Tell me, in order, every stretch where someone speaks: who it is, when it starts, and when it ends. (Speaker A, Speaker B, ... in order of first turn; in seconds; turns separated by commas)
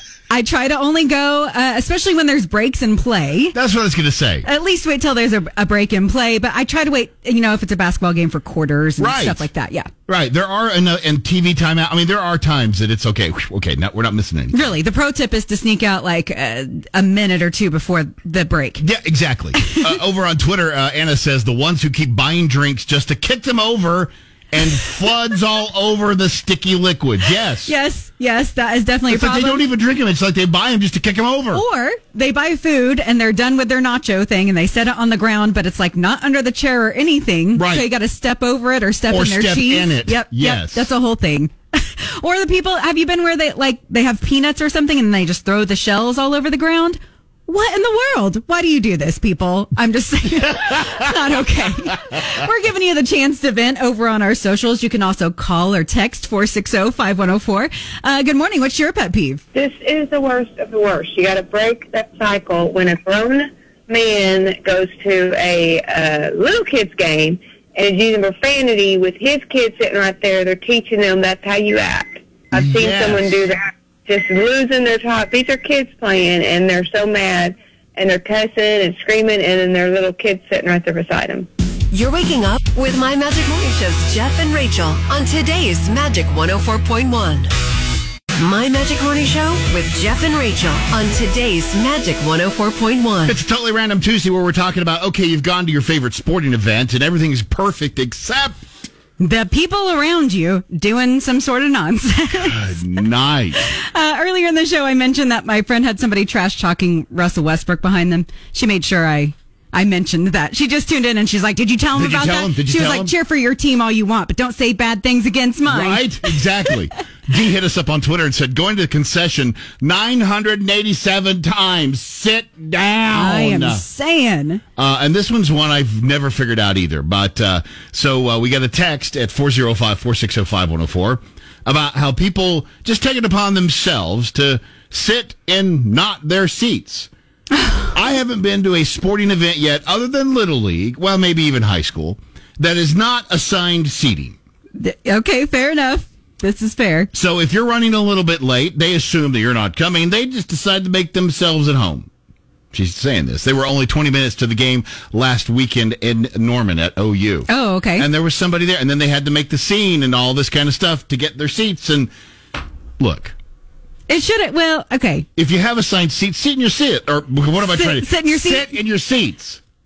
Speaker A: 0.3-3.6, Speaker B: 3.5-4.5, Speaker A: 4.4-9.9, Speaker B: 9.0-9.5, Speaker B: 10.1-14.8, Speaker A: 14.5-18.8, Speaker B: 18.8-27.7, Speaker A: 27.6-29.7, Speaker B: 29.1-31.6, Speaker A: 31.5-59.4, Speaker B: 37.5-37.9, Speaker B: 39.1-40.9, Speaker C: 59.5-81.5, Speaker B: 72.6-73.3, Speaker D: 81.9-87.5, Speaker D: 88.4-93.4, Speaker B: 93.3-98.6, Speaker A: 99.2-102.6, Speaker B: 102.4-103.7, Speaker A: 103.7-116.4, Speaker B: 111.9-113.1, Speaker B: 115.7-123.8, Speaker A: 123.1-124.6, Speaker B: 124.8-137.1, Speaker B: 137.9-144.4, Speaker A: 144.8-147.1, Speaker B: 147.1-152.1, Speaker B: 152.7-162.1, Speaker A: 157.5-158.1, Speaker B: 163.0-163.3, Speaker A: 164.1-165.3, Speaker B: 165.4-169.6, Speaker A: 167.6-168.8